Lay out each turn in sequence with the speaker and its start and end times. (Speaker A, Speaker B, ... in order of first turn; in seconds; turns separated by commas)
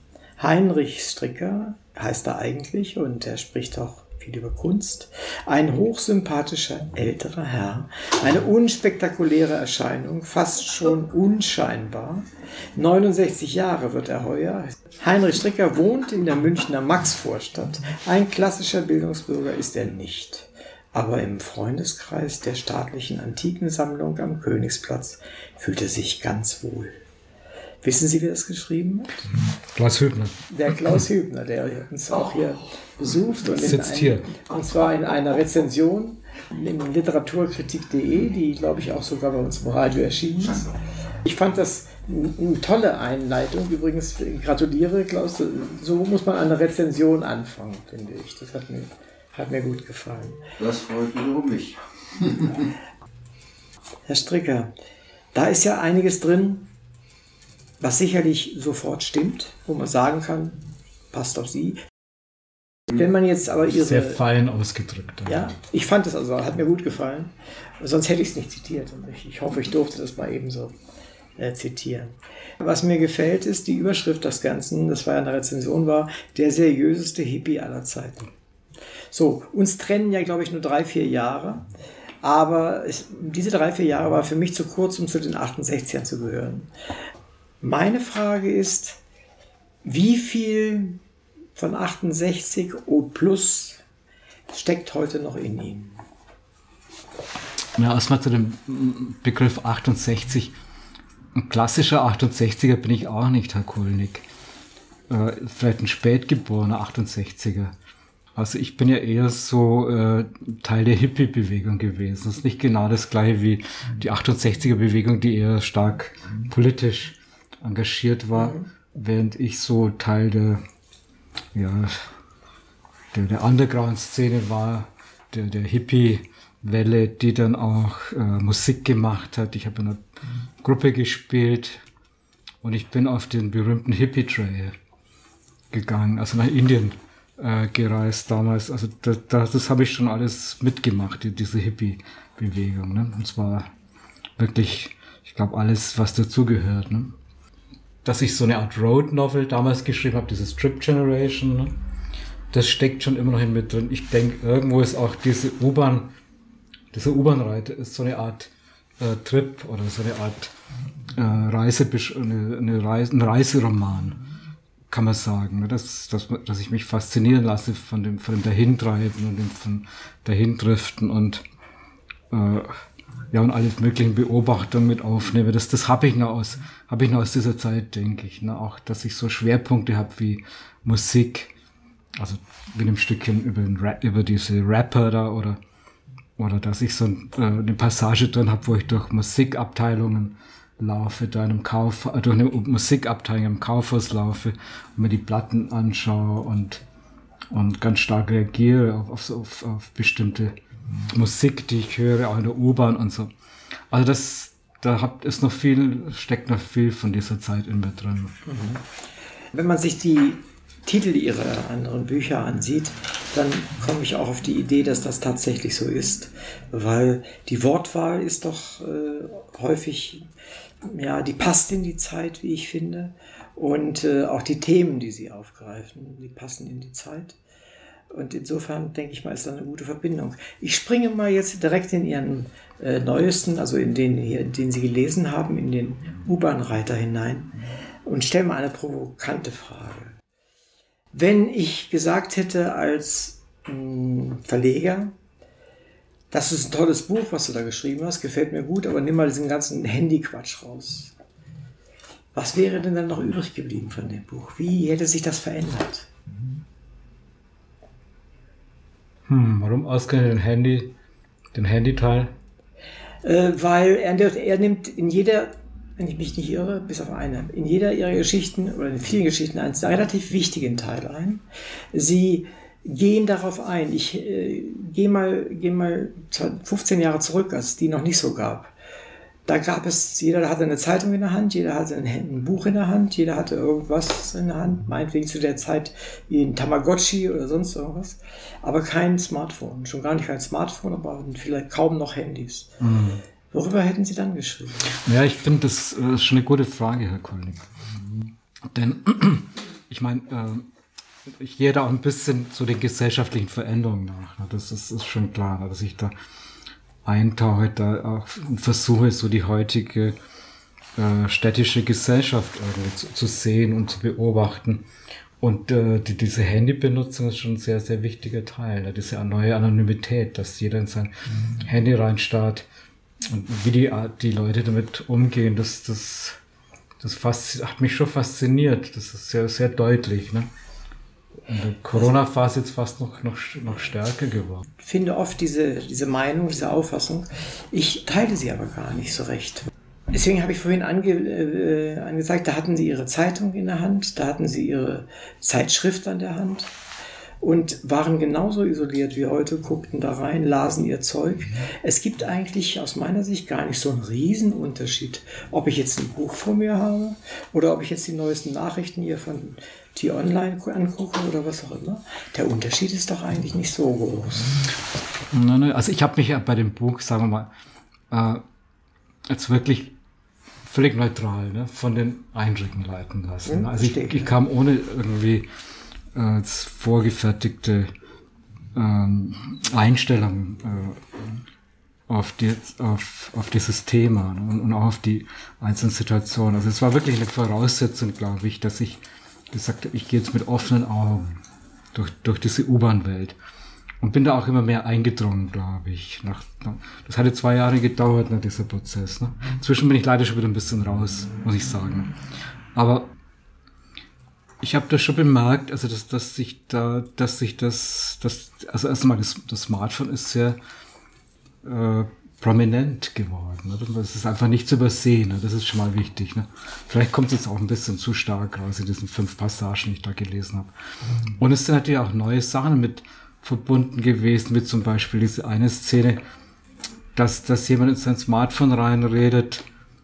Speaker A: 0.4-27.0, Speaker A: 27.8-29.3, Speaker B: 29.6-30.4, Speaker A: 30.5-50.5, Speaker B: 33.4-34.3, Speaker C: 50.6-52.7, Speaker A: 54.1-54.7, Speaker A: 55.3-56.7, Speaker A: 57.8-61.9, Speaker A: 62.9-64.2, Speaker B: 63.8-65.5, Speaker A: 65.3-70.8, Speaker A: 71.4-78.3, Speaker A: 79.1-81.7, Speaker A: 82.2-86.7, Speaker A: 87.6-89.0, Speaker A: 89.8-91.0, Speaker A: 91.6-93.8, Speaker A: 94.5-96.0, Speaker B: 97.8-100.5, Speaker B: 101.3-104.3, Speaker B: 105.1-107.7, Speaker B: 108.4-120.6, Speaker A: 118.3-118.7, Speaker B: 121.5-122.1, Speaker B: 123.1-130.0, Speaker B: 130.6-131.8, Speaker B: 132.6-134.8, Speaker B: 135.7-143.7, Speaker B: 144.4-147.2, Speaker B: 148.0-151.8, Speaker B: 152.5-156.1, Speaker B: 156.9-160.5, Speaker B: 161.2-164.2, Speaker B: 164.9-171.4, Speaker B: 172.3-181.5, Speaker B: 182.2-185.6, Speaker B: 186.4-196.8, Speaker B: 197.5-200.6, Speaker B: 201.1-203.3, Speaker B: 203.9-208.4, Speaker A: 208.5-208.8, Speaker A: 209.5-220.3, Speaker A: 220.8-227.4, Speaker A: 228.1-240.2, Speaker A: 241.1-245.2, Speaker A: 246.3-251.1, Speaker A: 252.3-256.1, Speaker B: 259.3-260.9, Speaker B: 261.6-262.3, Speaker A: 263.2-278.7, Speaker A: 279.4-292.8, Speaker B: 292.8-293.2, Speaker A: 293.5-295.0, Speaker B: 294.9-300.7, Speaker B: 301.3-306.1, Speaker B: 307.1-310.2, Speaker B: 311.0-314.9, Speaker B: 315.4-322.7, Speaker B: 323.3-326.4, Speaker B: 327.0-330.5, Speaker B: 331.5-334.7, Speaker A: 334.8-346.7, Speaker A: 347.4-364.7, Speaker B: 365.3-367.5, Speaker B: 368.1-368.4, Speaker B: 369.3-369.9, Speaker B: 370.6-375.5, Speaker A: 373.5-374.3, Speaker B: 376.1-377.9, Speaker B: 378.8-381.4, Speaker B: 382.1-391.4, Speaker B: 391.9-393.4, Speaker B: 394.0-402.1, Speaker B: 402.8-403.1, Speaker B: 404.6-410.6, Speaker B: 411.6-420.7, Speaker B: 421.4-426.2, Speaker B: 427.1-429.6